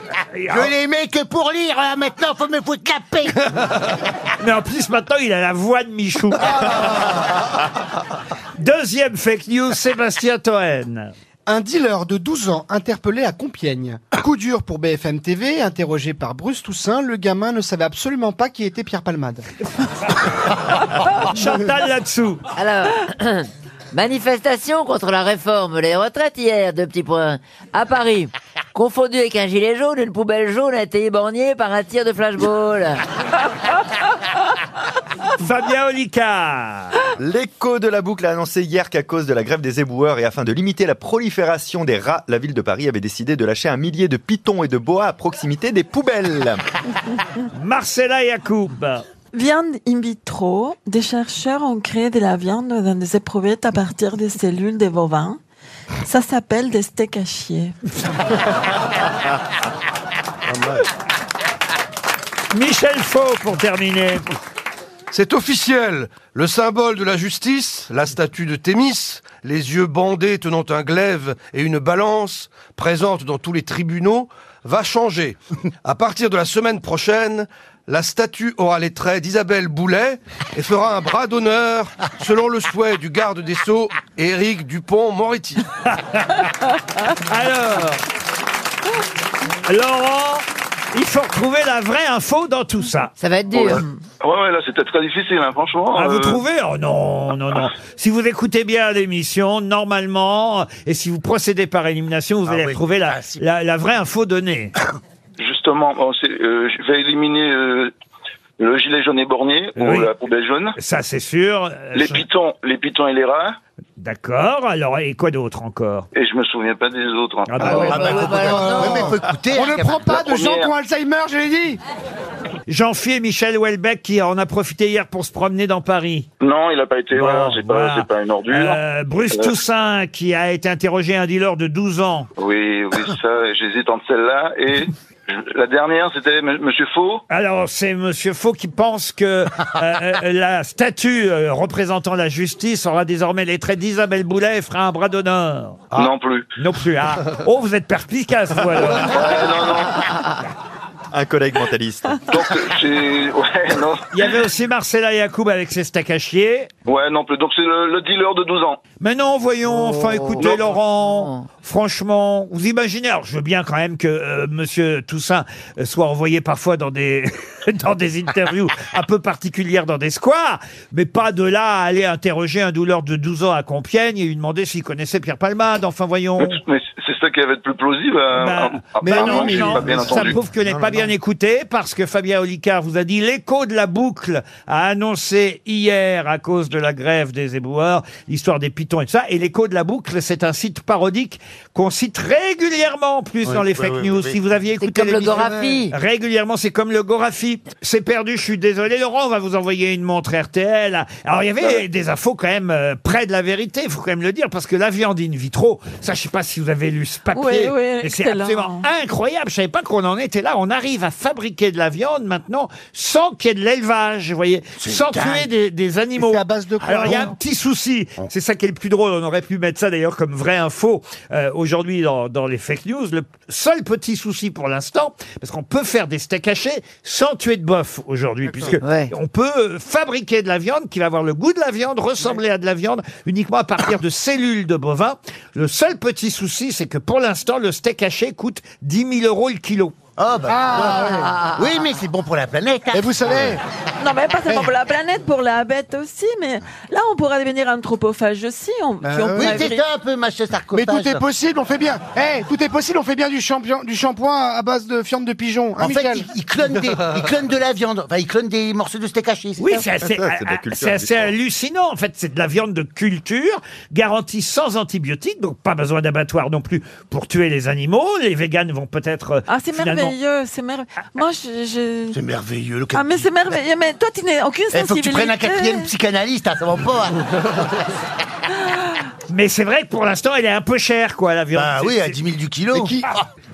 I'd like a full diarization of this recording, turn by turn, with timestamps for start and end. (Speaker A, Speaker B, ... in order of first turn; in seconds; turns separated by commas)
Speaker A: 0.3-0.7, Speaker B: 0.5-3.5, Speaker A: 4.4-6.9, Speaker C: 6.4-7.3, Speaker A: 8.6-11.1, Speaker C: 11.5-19.4, Speaker A: 20.9-22.5, Speaker D: 22.6-33.0, Speaker A: 35.4-37.0, Speaker E: 37.2-46.6, Speaker A: 47.5-49.0, Speaker F: 49.3-55.4, Speaker F: 56.0-57.8, Speaker A: 62.5-64.2, Speaker G: 65.1-85.6, Speaker A: 85.9-86.5, Speaker A: 87.1-88.0, Speaker A: 89.7-93.1, Speaker D: 93.2-93.8, Speaker H: 93.5-96.4, Speaker A: 96.0-104.7, Speaker B: 102.5-103.4, Speaker H: 105.4-107.9, Speaker H: 108.6-110.8, Speaker A: 109.8-110.1, Speaker A: 110.8-112.2, Speaker H: 111.9-113.6, Speaker A: 114.0-116.1, Speaker H: 116.2-117.6, Speaker A: 117.5-118.4, Speaker D: 117.6-119.1, Speaker B: 117.6-120.2, Speaker C: 117.7-121.8, Speaker H: 120.1-120.7, Speaker A: 122.7-126.3, Speaker H: 126.4-129.5, Speaker A: 127.2-132.3, Speaker H: 132.4-137.2, Speaker A: 137.3-146.0, Speaker H: 145.9-146.5, Speaker A: 146.6-149.3, Speaker H: 148.9-150.1, Speaker E: 151.1-152.4, Speaker H: 152.3-154.1, Speaker A: 154.1-156.7, Speaker H: 156.9-158.8, Speaker A: 159.0-176.6, Speaker D: 159.7-161.5, Speaker H: 176.4-180.4, Speaker A: 178.3-239.9, Speaker C: 179.0-180.3, Speaker B: 193.4-194.4, Speaker D: 194.8-195.9, Speaker C: 195.4-195.8, Speaker F: 207.3-208.9, Speaker B: 214.8-215.5, Speaker C: 216.2-217.3, Speaker D: 228.8-229.1, Speaker B: 240.2-243.6, Speaker C: 240.5-241.3, Speaker D: 240.8-241.9, Speaker C: 242.9-243.6, Speaker F: 244.0-249.8, Speaker C: 249.0-249.7, Speaker B: 249.3-251.2, Speaker C: 250.7-256.3, Speaker B: 255.8-259.8, Speaker A: 259.6-270.1, Speaker E: 260.0-261.3, Speaker F: 269.5-272.2, Speaker B: 272.1-273.5, Speaker F: 272.9-275.9, Speaker B: 274.7-277.8, Speaker F: 278.6-279.0, Speaker A: 279.3-282.2, Speaker B: 281.5-283.1, Speaker C: 282.7-283.1